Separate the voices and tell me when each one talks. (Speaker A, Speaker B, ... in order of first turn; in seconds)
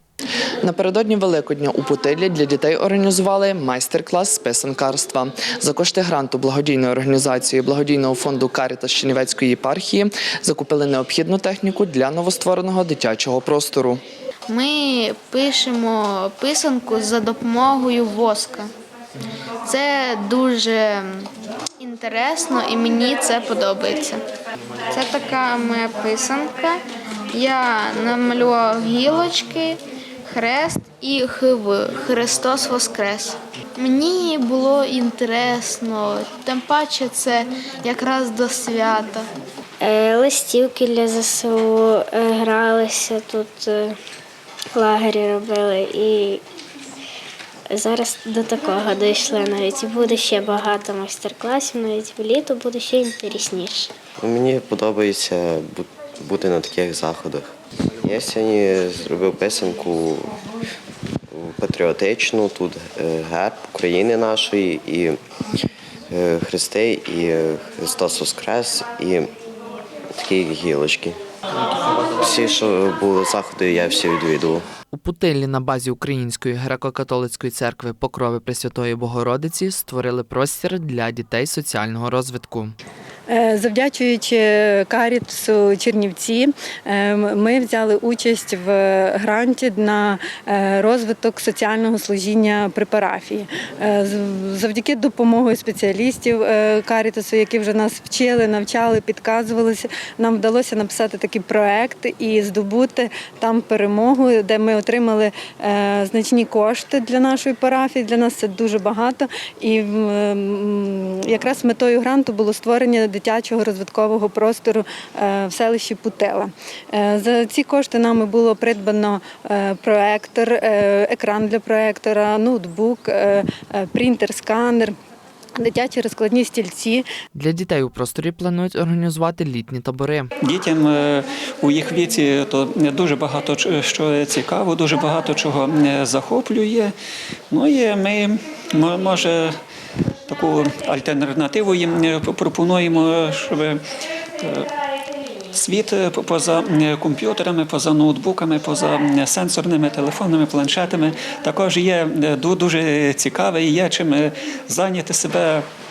Speaker A: 0.6-14.0, 74.9-82.7, 127.3-130.3
Speaker B: 14.5-18.7, 19.6-21.3, 21.8-24.2, 24.9-26.8, 27.3-39.3
Speaker C: 39.8-44.0, 44.7-46.4, 47.7-53.9
Speaker D: 54.2-60.3, 61.3-65.2, 66.1-69.3, 70.2-71.2, 72.2-74.6
Speaker E: 83.3-124.9, 125.6-127.0
Speaker F: 130.4-136.9, 137.5-139.6, 140.3-143.8, 144.4-144.7, 145.5-155.7